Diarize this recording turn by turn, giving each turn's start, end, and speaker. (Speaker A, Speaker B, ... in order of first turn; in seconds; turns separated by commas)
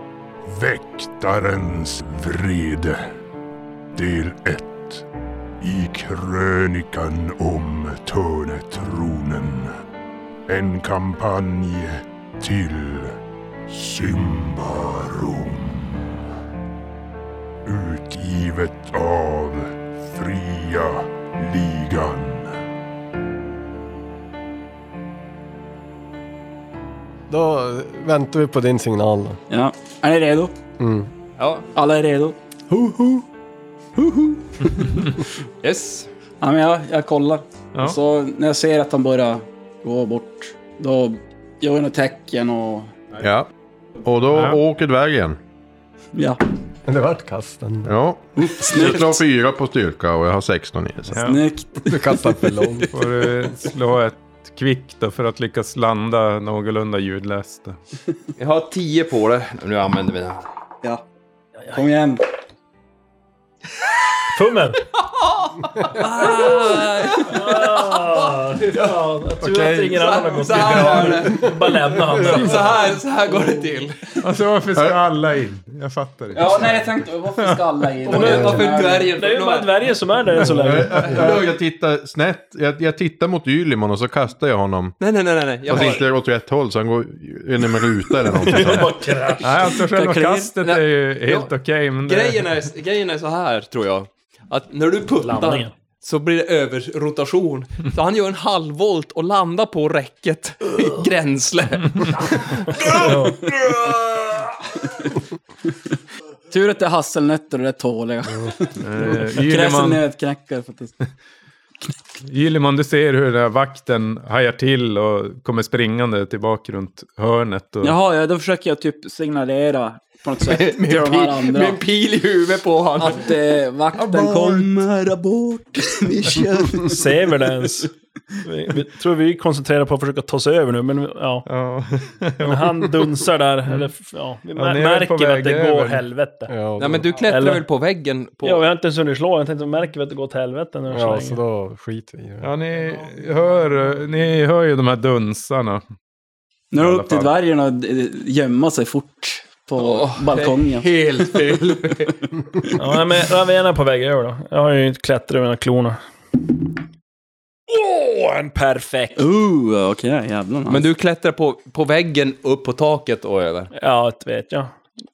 Speaker A: 0.5-3.0, Speaker A: 3.9-5.1, Speaker A: 5.6-9.7, Speaker A: 10.5-13.1, Speaker A: 13.7-16.1, Speaker A: 17.6-22.6, Speaker B: 27.3-29.4, Speaker C: 29.5-30.6, Speaker B: 30.8-31.1, Speaker D: 31.4-31.7, Speaker C: 31.7-33.2, Speaker C: 34.0-35.2, Speaker D: 35.6-36.1, Speaker C: 36.4-42.9, Speaker E: 43.2-43.5, Speaker E: 44.0-45.4, Speaker F: 44.3-44.6, Speaker C: 46.1-46.4, Speaker B: 46.9-47.9, Speaker E: 47.9-51.2, Speaker C: 48.4-49.2, Speaker F: 51.1-51.4, Speaker C: 51.1-53.3, Speaker B: 51.8-52.9, Speaker F: 52.9-57.8, Speaker D: 58.4-60.4, Speaker C: 61.7-62.2, Speaker G: 64.3-64.8, Speaker D: 65.2-68.9, Speaker G: 67.2-72.7, Speaker B: 69.4-70.0, Speaker D: 69.9-71.5, Speaker B: 70.8-71.5, Speaker D: 72.1-74.0, Speaker B: 72.2-72.4, Speaker F: 74.2-77.6, Speaker C: 76.3-79.1, Speaker D: 78.0-79.7, Speaker G: 78.1-81.2, Speaker E: 80.4-85.0, Speaker D: 85.0-86.0, Speaker E: 85.7-89.0, Speaker G: 88.4-89.5, Speaker F: 89.4-92.6, Speaker C: 89.7-90.5, Speaker D: 90.6-91.5, Speaker D: 92.0-103.9, Speaker G: 95.2-95.7, Speaker G: 102.8-103.6, Speaker C: 106.5-110.9, Speaker F: 108.8-110.0, Speaker F: 112.2-118.0, Speaker C: 117.8-121.8, Speaker D: 120.4-124.7, Speaker C: 123.0-127.2, Speaker G: 126.8-127.9, Speaker G: 128.4-131.5, Speaker F: 131.4-132.8, Speaker G: 132.4-136.5, Speaker F: 134.5-136.0, Speaker B: 136.5-137.1, Speaker D: 136.8-138.6, Speaker G: 137.3-137.6, Speaker G: 138.4-141.4, Speaker B: 140.9-142.5, Speaker F: 142.4-145.8, Speaker C: 146.7-151.9, Speaker F: 146.8-147.3, Speaker D: 149.8-152.2, Speaker G: 152.7-156.0, Speaker G: 157.7-159.2, Speaker C: 159.2-160.9, Speaker D: 160.7-163.7, Speaker G: 163.7-164.7